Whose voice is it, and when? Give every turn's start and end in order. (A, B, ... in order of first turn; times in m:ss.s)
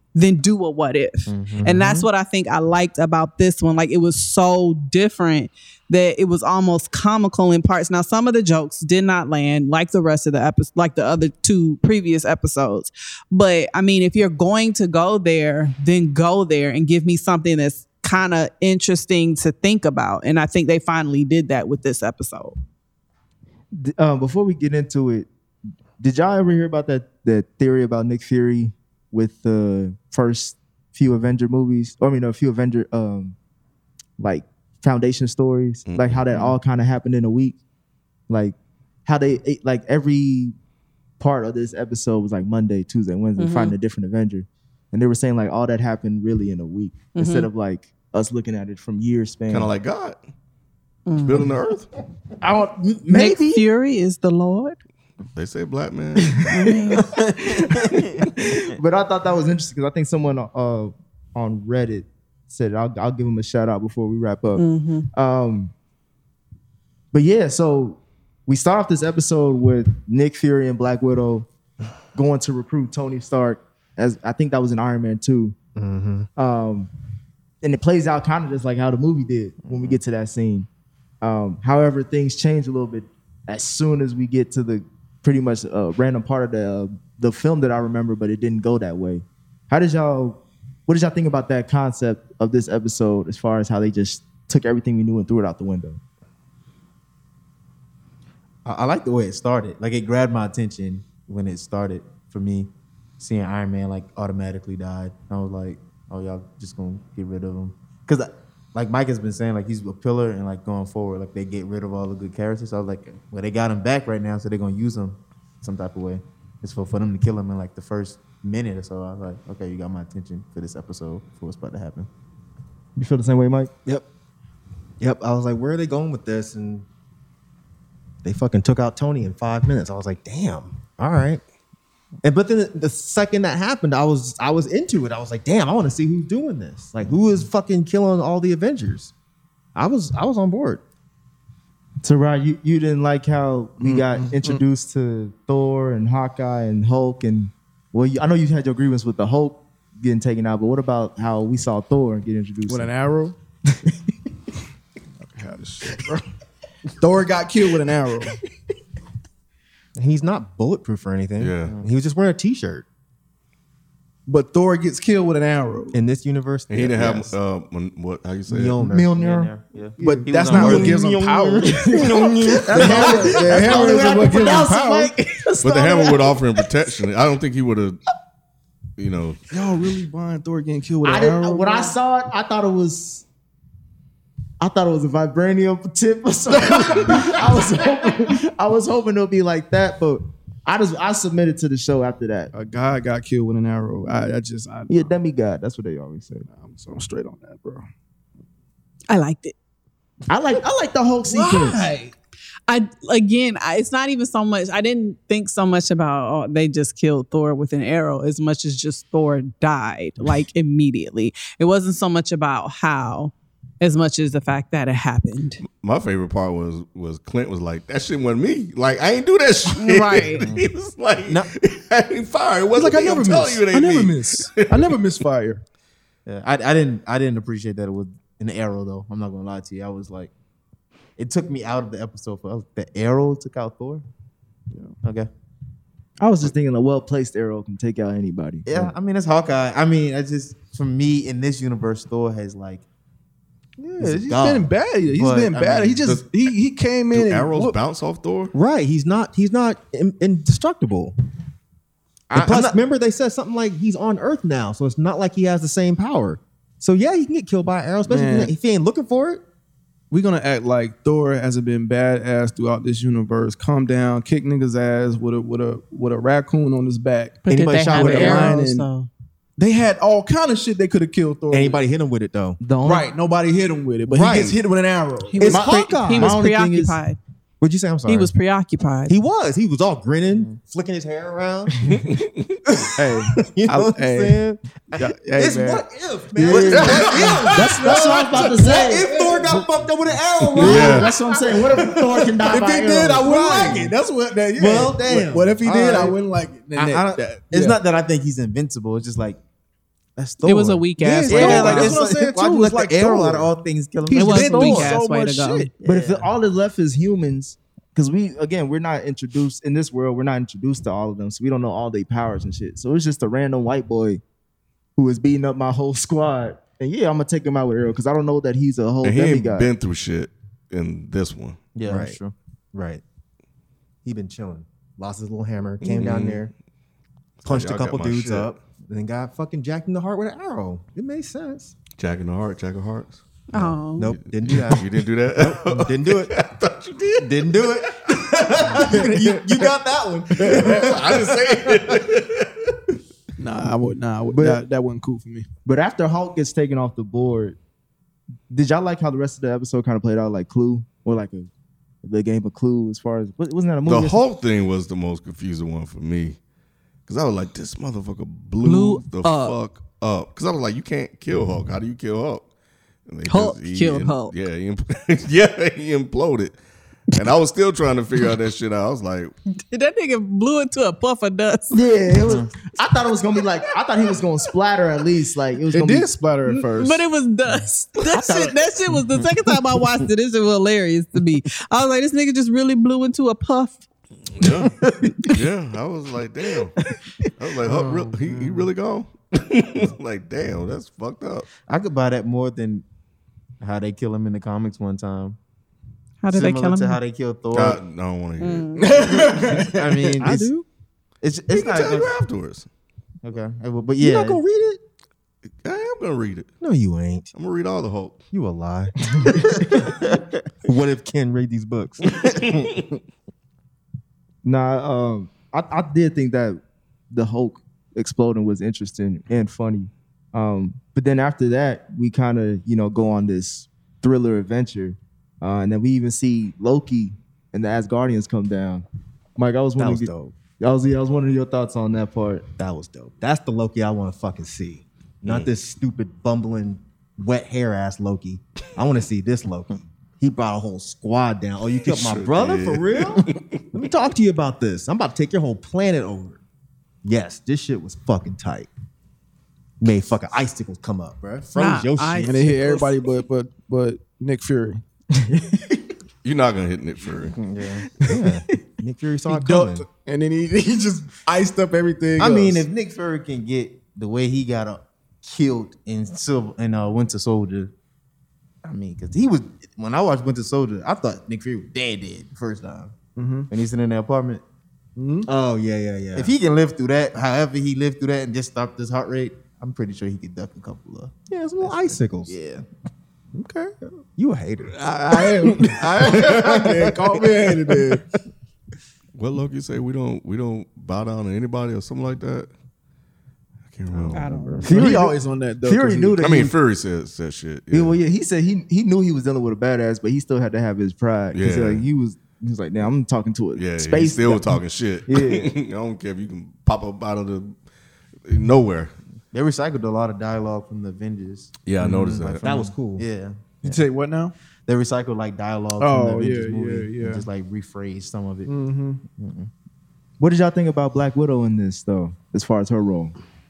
0:00.2-0:22.6 A
0:01.3-0:02.0 B
0:01.5-0:01.8 C
0:23.7-0:25.3 D
0:26.0-0:33.4 D
0:34.2-0:37.6 D
0:35.9-0:36.5 E
0:38.3-0:40.6 D
0:41.2-0:49.7 D
0:43.4-0:43.7 A
0:47.2-0:47.5 A
0:49.5-0:50.2 E
0:51.1-0:51.5 A
0:51.2-0:51.9 E
0:52.4-0:53.6 D
0:53.1-0:54.8 A
0:55.4-0:57.0 E
0:56.5-0:57.1 A
0:58.6-1:05.7 D
1:04.6-1:05.1 A
1:07.1-1:11.5 D
1:12.2-1:15.6 D
1:15.8-1:16.3 C
1:16.4-1:16.9 D
1:17.6-1:20.7 D
1:21.2-1:36.0 D
1:38.6-2:02.1 B
2:03.0-2:03.8 D
2:05.0-2:06.9 C
2:08.2-2:11.4 C
2:12.2-2:19.1 C
2:19.8-2:20.8 C
2:22.0-2:32.9 D
2:23.8-2:24.6 F
2:32.7-2:33.4 F
2:35.2-2:36.2 F
2:37.0-2:38.4 F
2:40.0-2:42.9 C
2:41.4-2:41.8 E
2:44.3-2:46.0 F
2:45.9-2:47.4 C
2:46.7-2:48.8 E
2:48.5-2:49.2 C
2:48.6-2:51.2 B
2:48.9-2:51.0 D
2:50.0-2:55.2 F
2:50.3-2:53.8 C
2:51.7-2:53.7 B
2:52.7-2:56.4 D
2:55.6-2:58.0 E
2:59.0-2:59.5 E
2:59.5-3:02.0 F
3:01.0-3:03.2 D
3:04.6-3:12.5 D
3:06.6-3:07.5 F
3:12.5-3:15.2 F
3:14.9-3:16.5 D
3:16.5-3:17.9 F
3:19.1-3:19.6 A
3:20.3-3:21.9 D
3:21.2-3:22.1 F
3:22.7-3:35.6 A
3:35.8-3:45.0 E
3:39.7-3:40.5 A
3:42.7-3:45.6 F
3:46.3-3:50.3 B
3:51.2-3:54.0 B
3:55.0-3:55.3 B
3:56.2-3:58.9 D
3:58.7-4:02.8 B
4:04.0-4:07.8 F
4:04.0-4:06.2 B
4:07.1-4:08.5 E
4:08.5-4:11.2 C
4:12.3-4:12.8 B
4:12.3-4:19.4 C
4:18.1-4:18.5 F
4:20.1-4:28.5 F
4:27.5-4:29.1 A
4:27.5-4:28.6 C
4:28.0-4:28.5 B
4:29.6-4:31.8 F
4:31.5-4:32.6 C
4:32.6-4:33.1 D
4:32.8-4:35.5 F
4:34.1-4:34.6 C
4:35.3-4:37.2 A
4:35.4-4:36.4 C
4:35.5-4:37.0 D
4:37.6-4:38.3 C
4:38.1-4:39.1 A
4:39.1-4:41.8 C
4:42.0-4:42.5 E
4:43.0-4:45.8 F
4:43.4-4:51.1 C
4:46.4-4:49.1 D
4:46.4-4:49.5 F
4:50.5-4:51.1 F
4:50.6-4:53.3 D
4:50.6-4:51.1 E
4:51.8-4:57.8 F
4:53.1-4:54.0 C
4:54.6-4:56.1 C
4:56.8-4:59.4 B
4:56.8-4:57.2 C
5:00.2-5:00.5 B
5:00.4-5:02.1 C
5:00.4-5:01.9 A
5:01.2-5:03.5 F
5:01.3-5:05.0 B
5:04.1-5:05.7 F
5:04.1-5:05.7 A
5:04.6-5:04.9 C
5:05.8-5:06.3 B
5:05.8-5:14.2 D
5:15.0-5:19.7 D
5:19.0-5:21.6 E
5:21.8-5:22.3 B
5:21.8-5:22.2 C
5:22.7-5:23.0 C
5:24.0-5:26.5 C
5:25.9-5:26.5 E
5:27.4-5:28.6 E
5:27.4-5:31.8 C
5:32.0-5:33.2 E
5:33.5-5:34.2 A
5:33.5-5:36.4 C
5:34.3-5:38.2 E
5:37.2-5:41.8 C
5:40.5-5:42.5 E
5:43.4-5:45.5 F
5:44.3-5:44.6 D
5:45.6-5:47.6 D
5:48.5-5:51.5 D
5:52.0-5:54.2 D
5:53.8-5:56.4 E
5:57.1-6:02.5 E
5:58.6-5:59.6 A
6:03.1-6:06.6 E
6:03.3-6:04.4 A
6:07.1-6:09.3 E
6:09.7-6:11.8 A
6:11.7-6:16.1 D
6:15.7-6:17.0 F
6:16.5-6:23.8 A
6:18.2-6:18.5 D
6:24.4-6:24.8 E
6:25.3-6:26.8 E
6:27.4-6:31.5 E
6:27.6-6:28.7 F
6:31.7-6:32.8 B
6:33.6-6:35.4 B
6:36.2-6:37.0 A
6:36.3-6:37.8 B
6:37.5-6:38.9 E
6:38.4-6:39.0 A
6:38.8-6:40.2 F
6:39.5-6:40.5 B
6:40.2-6:40.7 C
6:41.2-6:42.2 B
6:41.5-6:42.7 E
6:43.2-6:44.4 B
6:44.0-6:44.8 C
6:45.6-6:46.5 E
6:46.6-6:47.3 C
6:47.3-6:48.2 E
6:48.3-6:49.9 C
6:49.9-6:50.2 B
6:50.6-6:52.7 C
6:54.4-6:56.6 D
6:57.1-7:08.8 D
7:09.4-7:12.5 D
7:09.8-7:10.4 C
7:12.6-7:26.4 C
7:15.2-7:15.5 E
7:21.8-7:23.6 E
7:27.0-7:28.7 C
7:29.8-7:32.6 C
7:31.6-7:33.0 A
7:32.2-7:34.8 F
7:35.2-7:35.8 D
7:36.2-7:37.4 E
7:37.4-7:37.9 B
7:38.0-7:39.9 C
7:39.3-7:42.7 F
7:42.2-7:47.7 B
7:48.6-7:53.0 B
7:53.2-7:53.5 F
7:53.5-7:54.4 B
7:55.0-7:55.3 F
7:55.3-8:02.6 B
7:56.1-7:56.3 C
8:01.3-8:02.4 C
8:03.4-8:03.7 F
8:04.2-8:04.8 C
8:04.7-8:08.0 F
8:06.2-8:06.7 C
8:09.2-8:12.5 E
8:13.7-8:14.5 E
8:13.9-8:14.2 C
8:14.1-8:14.9 A
8:14.6-8:16.2 F
8:14.7-8:16.6 D
8:16.2-8:18.0 E
8:17.7-8:25.6 D
8:21.3-8:21.9 E
8:23.6-8:27.6 E
8:28.2-8:29.0 E
8:29.3-8:33.8 B
8:31.6-8:32.4 E
8:31.9-8:33.0 C
8:33.6-8:34.3 F
8:34.7-8:38.5 B
8:35.8-8:37.3 F
8:38.5-8:39.0 F
8:39.1-8:39.5 B
8:40.2-8:43.1 D